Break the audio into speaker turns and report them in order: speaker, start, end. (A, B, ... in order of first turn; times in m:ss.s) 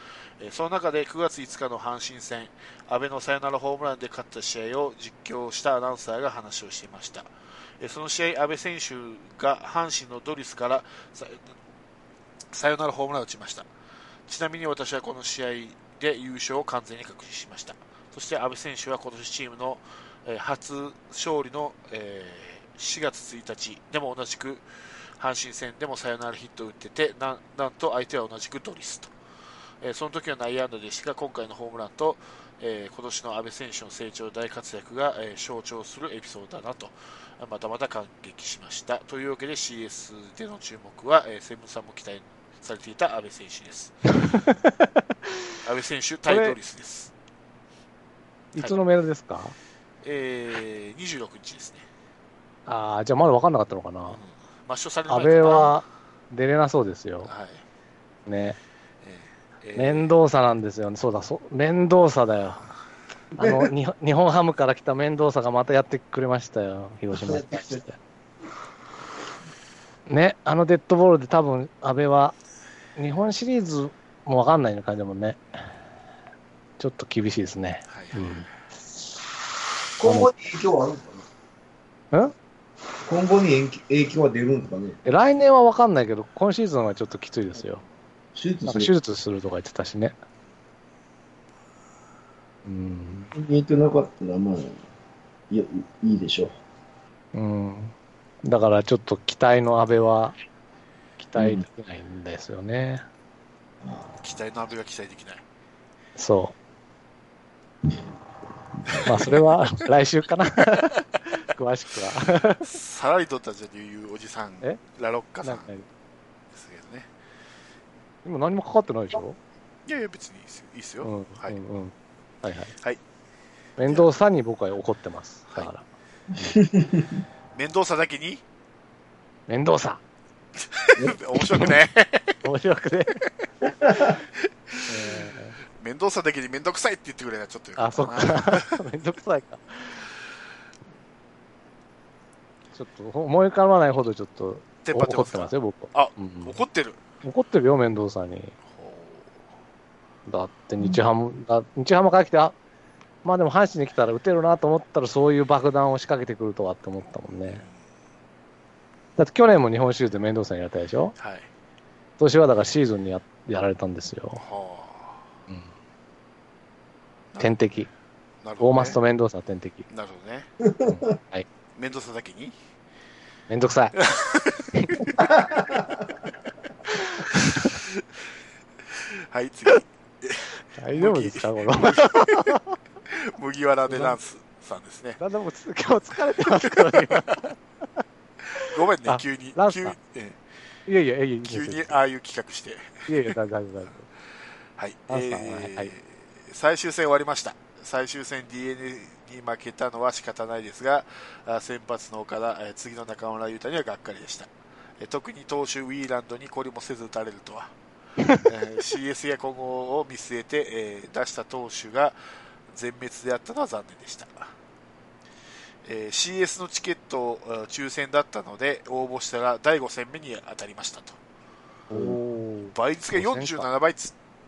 0:00.4-0:11.5 A
0:12.5-0:13.7 A
0:14.3-0:29.1 A
0:29.8-0:44.1 A
0:44.2-0:45.4 B
0:45.6-0:47.1 A
0:46.3-0:46.6 B
0:48.5-0:49.6 B
0:50.0-0:51.8 A
0:52.6-0:54.2 B
0:54.1-0:55.8 A
0:55.1-0:57.3 B
0:57.2-0:57.6 A
0:58.2-0:58.6 B
0:59.0-1:00.1 A
0:59.7-1:02.6 B
1:03.3-1:08.0 B
1:03.4-1:03.7 C
1:07.1-1:07.8 C
1:10.1-1:12.3 B
1:13.0-1:15.7 B
1:16.8-1:18.5 B
1:17.9-1:18.5 A
1:20.0-1:21.3 C
1:20.0-1:20.3 B
1:23.0-1:25.0 C
1:25.0-1:27.8 B
1:28.3-1:28.9 C
1:28.6-1:30.1 B
1:32.6-1:33.3 B
1:33.3-1:34.8 C
1:35.5-1:36.5 C
1:37.3-1:40.4 B
1:41.2-1:43.0 B
1:41.4-1:41.6 C
1:44.2-1:45.4 A
1:46.2-1:46.5 B
1:48.9-1:49.4 A
1:49.0-1:52.7 B
1:52.6-1:55.7 A
1:55.4-1:55.8 B
1:56.5-1:57.1 A
1:58.2-1:59.4 B
1:59.8-2:01.6 A
2:01.0-2:02.7 B
2:03.8-2:05.8 B
2:06.5-2:07.1 C
2:07.5-2:08.4 A
2:09.5-2:10.0 B
2:10.6-2:12.4 A
2:11.4-2:11.7 B
2:12.4-2:13.2 B
2:14.4-2:18.8 A
2:14.9-2:15.6 B
2:17.8-2:20.1 B
2:22.7-2:26.5 B
2:24.8-2:27.0 A
2:27.2-2:28.5 B
2:28.7-2:29.4 A
2:30.2-2:32.5 B
2:33.2-2:37.6 B
2:37.5-2:37.8 A
2:39.2-2:41.1 B
2:41.2-2:41.5 A
2:42.2-2:44.4 B
2:44.3-2:45.4 A
2:47.4-2:47.9 B
2:48.4-2:49.0 A
2:48.6-2:49.8 B
2:49.9-2:50.5 A
2:50.6-2:51.0 C
2:50.8-2:51.4 B
2:51.8-2:52.6 A
2:53.5-2:54.0 B
2:54.0-2:55.2 A
2:54.7-2:55.0 B
2:57.0-2:57.8 B
2:58.9-3:02.6 A
3:00.8-3:02.8 B
3:03.1-3:05.2 A
3:03.9-3:04.2 B
3:05.2-3:07.6 B
3:06.5-3:07.4 A
3:08.5-3:10.4 A
3:08.6-3:10.0 B
3:10.9-3:12.0 B
3:11.4-3:13.3 A
3:13.1-3:14.0 B
3:14.8-3:27.7 A
3:15.1-3:15.9 B
3:28.4-3:32.2 A
3:32.7-3:34.5 A
3:35.8-3:41.2 A
3:41.9-3:43.7 B
3:42.7-3:44.1 A